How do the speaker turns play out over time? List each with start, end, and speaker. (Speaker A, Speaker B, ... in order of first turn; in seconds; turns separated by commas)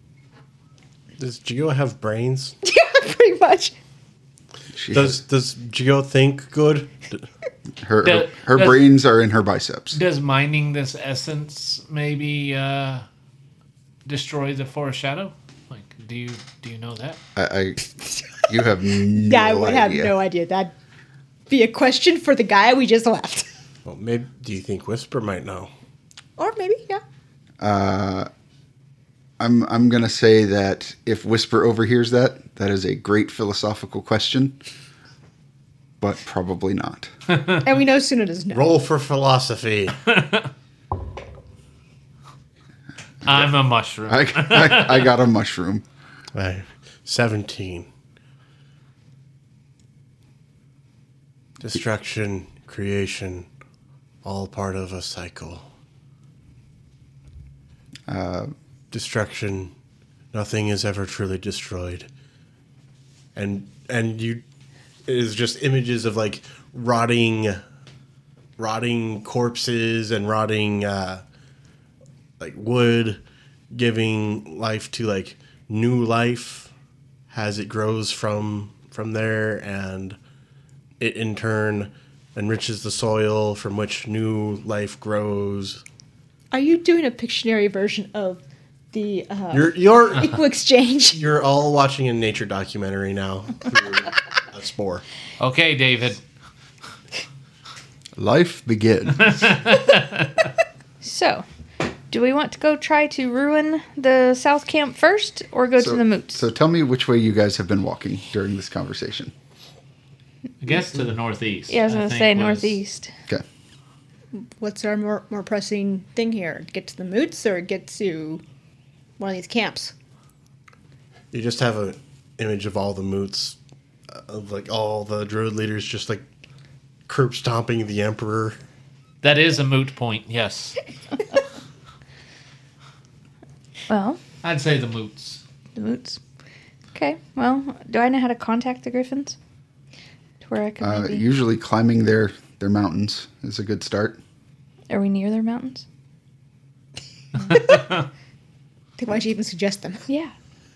Speaker A: 1.2-2.6, Speaker B: 2.6-3.7, Speaker C: 4.8-5.2, Speaker A: 4.9-7.2, Speaker C: 7.8-10.0, Speaker D: 8.0-8.8, Speaker D: 9.9-13.0, Speaker D: 14.1-17.2, Speaker C: 17.4-20.1, Speaker B: 19.2-20.7, Speaker B: 21.5-23.5, Speaker A: 23.9-25.7, Speaker B: 26.4-27.0, Speaker C: 27.6-28.3, Speaker C: 29.4-34.6, Speaker C: 36.0-37.1, Speaker B: 37.6-38.8, Speaker A: 38.5-40.0, Speaker D: 40.1-40.5, Speaker D: 43.2-45.1, Speaker C: 44.1-45.9, Speaker A: 46.4-47.9, Speaker A: 51.6-53.5, Speaker A: 54.2-55.7, Speaker C: 58.1-58.5, Speaker A: 58.9-59.7, Speaker A: 60.3-62.1, Speaker A: 63.4-64.4, Speaker A: 65.1-67.6, Speaker A: 68.6-71.2, Speaker A: 72.4-76.7, Speaker A: 77.3-80.2, Speaker A: 81.0-85.8, Speaker B: 86.5-88.4, Speaker B: 88.9-91.2, Speaker A: 89.5-90.3, Speaker A: 91.1-95.0, Speaker D: 95.4-96.2, Speaker C: 98.2-99.5, Speaker D: 99.2-100.5, Speaker E: 101.0-101.5, Speaker E: 102.1-106.4, Speaker C: 105.8-109.3, Speaker D: 110.6-112.8, Speaker E: 111.7-113.1, Speaker B: 114.4-118.4, Speaker B: 119.2-119.9, Speaker A: 121.3-123.6, Speaker A: 124.1-126.2, Speaker A: 127.1-128.6, Speaker D: 129.2-130.8, Speaker E: 133.9-134.2, Speaker D: 134.4-135.4, Speaker E: 135.8-136.2, Speaker E: 136.9-139.4, Speaker E: 140.4-141.2, Speaker C: 140.8-144.2, Speaker E: 144.9-145.8, Speaker D: 147.5-148.0, Speaker B: 149.0-150.1